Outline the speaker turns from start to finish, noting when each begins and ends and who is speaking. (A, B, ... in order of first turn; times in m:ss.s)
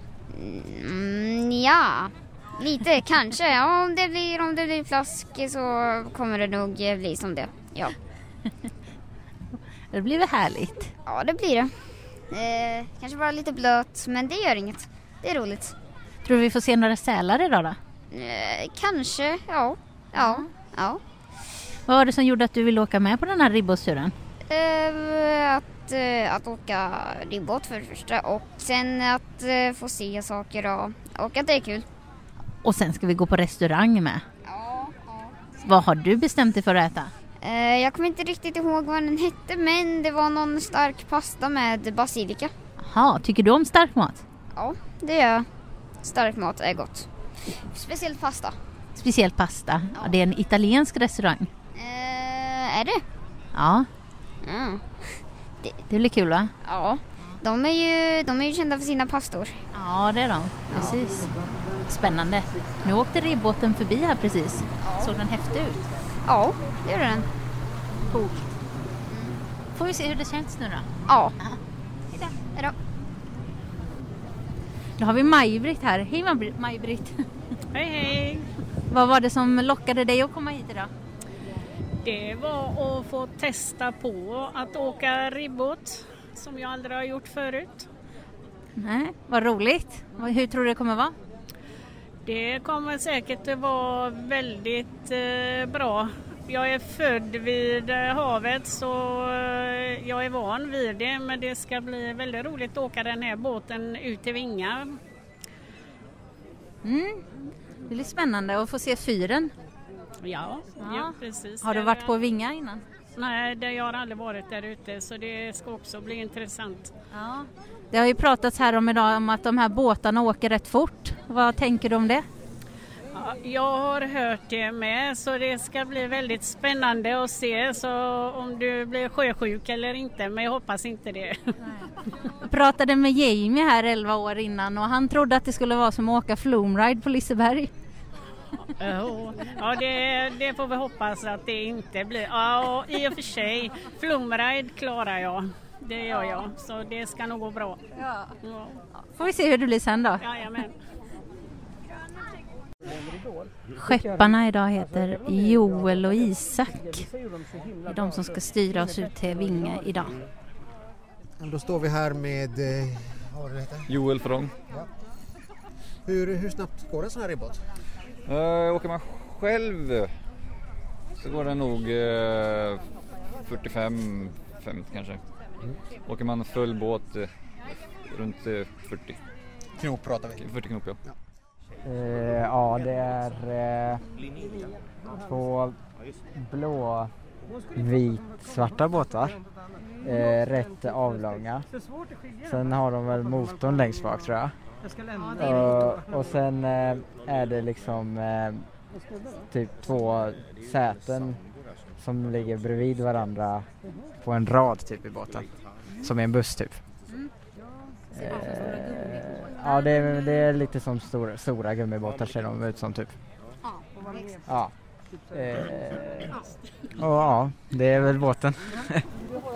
0:00.3-0:07.9 A
0:09.9-0:10.9 B
0:11.0-0:11.7 A
0:12.3-0:15.7 A
0:16.2-0:17.8 B
0:18.1-0:21.0 A
0:20.2-0:20.5 B
0:21.9-0:24.1 B
0:24.5-0:31.8 A
0:32.6-0:34.2 B
0:34.4-0:35.3 A
0:35.6-0:37.1 B
0:37.4-0:42.5 A
0:42.8-0:44.2 B
0:44.6-0:45.5 A
0:46.0-0:47.1 A
0:47.6-0:48.6 A
0:49.0-0:51.5 B
0:51.8-0:53.0 A
0:53.5-0:53.9 B
0:54.4-0:55.8 A
0:55.9-0:56.5 B
0:56.6-0:59.6 A
0:59.7-1:01.3 B
1:00.7-1:01.0 A
1:01.9-1:05.8 B
1:04.8-1:05.1 A
1:06.3-1:07.3 A
1:08.1-1:08.4 B
1:09.1-1:09.4 A
1:09.7-1:10.9 B
1:11.1-1:11.3 A
1:15.0-1:17.2 B
1:17.7-1:18.5 C
1:18.9-1:20.9 B
1:22.0-1:27.9 C
1:28.8-1:31.1 B
1:32.2-1:45.0 C
1:46.8-1:47.3 B
1:47.9-1:49.5 B
1:50.2-1:52.1 C
1:50.8-1:52.8 B
1:53.1-1:56.9 C
1:57.1-2:02.3 B
2:03.1-2:11.4 C
2:12.4-2:17.7 B
2:18.8-2:27.8 C
2:28.4-2:28.8 C
2:29.1-2:30.2 B
2:30.2-2:30.7 C
2:33.8-2:37.0 B
2:37.8-2:40.2 B
2:41.4-2:43.9 D
2:43.9-2:44.5 E
2:46.0-2:47.6 D
2:48.3-2:50.1 E
2:51.2-2:52.8 E
2:53.4-2:55.2 E
2:56.0-2:57.3 E
2:58.1-2:59.2 E
2:59.8-3:00.4 D
3:00.4-3:01.0 E
3:01.8-3:04.0 F
3:05.2-3:05.8 F
3:06.4-3:07.1 F
3:07.8-3:09.4 F
3:10.0-3:11.6 F
3:12.4-3:14.5 F
3:15.4-3:18.7 F
3:19.5-3:21.4 F
3:22.0-3:23.6 F
3:24.2-3:25.5 F
3:26.0-3:26.8 F
3:28.1-3:33.2 F
3:34.5-3:34.7 F
3:35.3-3:36.3 F
3:37.0-3:39.0 F